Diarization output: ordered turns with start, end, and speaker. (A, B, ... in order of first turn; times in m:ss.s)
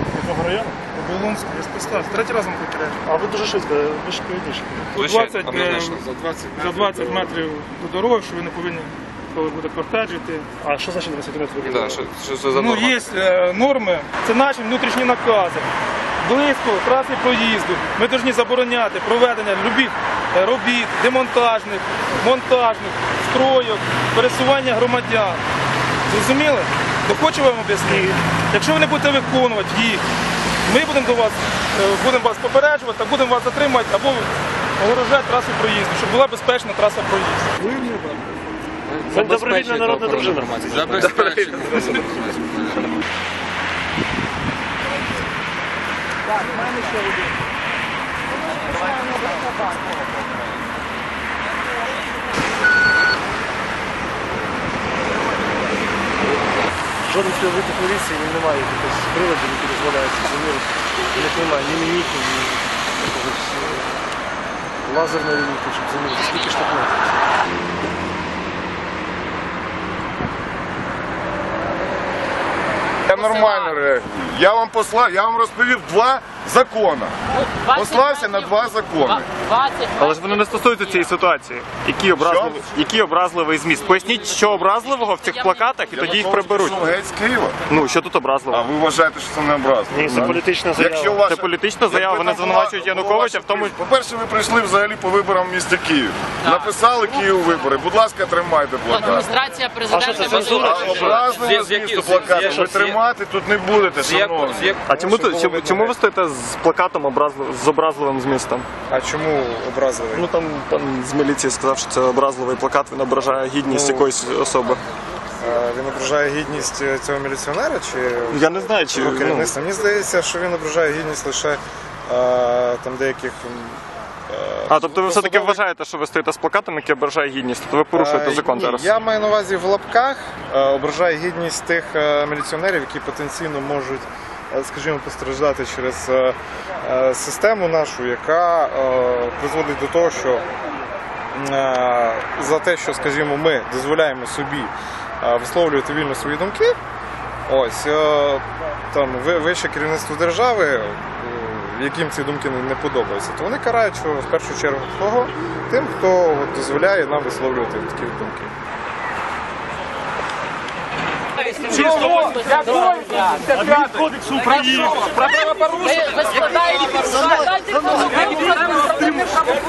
0:00.1-0:00.8 A
0:00.9-0:03.0 B
0:03.0-0:04.9 A
0:04.9-0:06.0 B
0:05.0-0:06.7 C
0:06.6-0:10.5 B
0:10.6-0:12.0 A
0:11.6-0:13.1 C
0:12.5-0:15.7 B
0:16.2-0:25.4 B
0:26.1-0:30.0 B
0:27.8-0:28.2 A
0:30.6-0:37.5 B
0:37.6-0:38.1 A
0:38.9-0:42.8 C
0:39.1-0:41.2 A
0:57.0-1:04.0 A
1:04.8-1:07.2 A
1:13.1-1:17.1 D
1:13.1-1:13.8 E
1:17.3-1:21.1 E
1:17.7-1:19.3 D
1:20.0-1:26.8 F
1:22.2-1:22.7 D
1:24.3-1:26.6 E
1:25.9-1:27.6 D
1:27.7-1:28.6 F
1:28.5-1:39.4 D
1:29.9-1:31.2 A
1:31.1-1:33.8 F
1:38.9-1:41.1 E
1:39.9-1:41.2 F
1:39.9-1:44.8 D
1:40.1-1:43.0 C
1:44.0-1:44.8 C
1:44.8-1:48.7 F
1:44.9-1:45.9 G
1:48.9-1:50.3 G
1:50.1-1:54.8 F
1:53.6-1:54.1 G
1:55.4-2:05.6 G
1:58.3-1:59.5 F
2:04.7-2:08.9 F
2:07.9-2:20.4 G
2:21.3-2:26.8 G
2:27.5-2:38.5 G
2:41.4-2:46.4 B
2:41.4-2:43.7 E
2:43.5-2:45.5 A
2:44.4-2:49.3 E